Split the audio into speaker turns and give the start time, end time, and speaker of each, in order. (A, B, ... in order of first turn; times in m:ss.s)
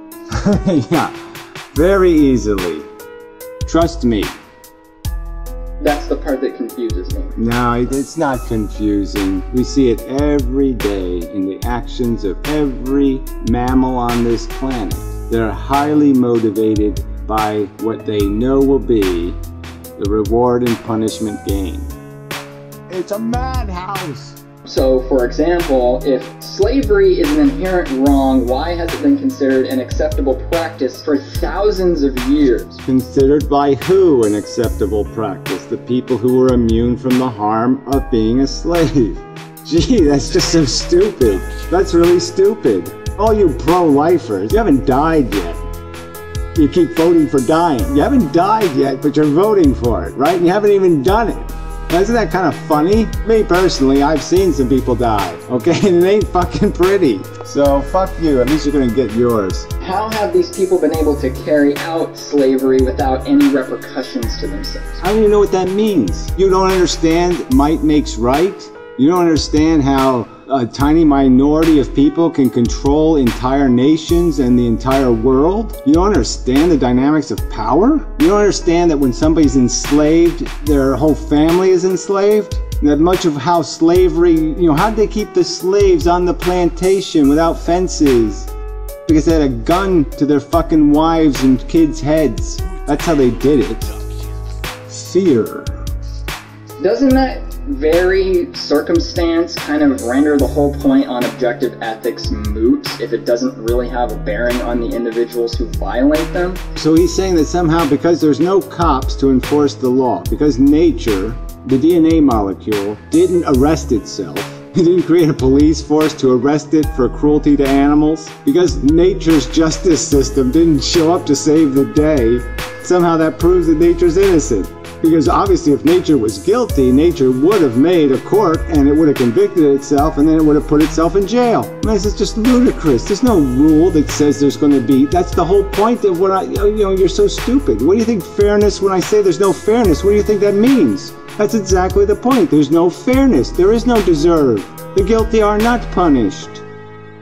0:00.3-0:01.1 A
0:01.7-0:02.9 A
0:03.6-0:04.4 A
0:05.8-0:07.4 B
0:07.4-0:19.4 A
0:20.0-0:21.9 A
0:22.9-0:24.4 A
0:24.6-0:32.8 B
0:32.8-0:45.6 A
0:46.5-0:59.7 A
0:59.8-1:05.0 B
1:05.0-1:28.5 A
1:29.0-1:33.9 A
1:34.9-1:35.7 A
1:36.8-1:46.6 B
1:46.8-2:26.6 A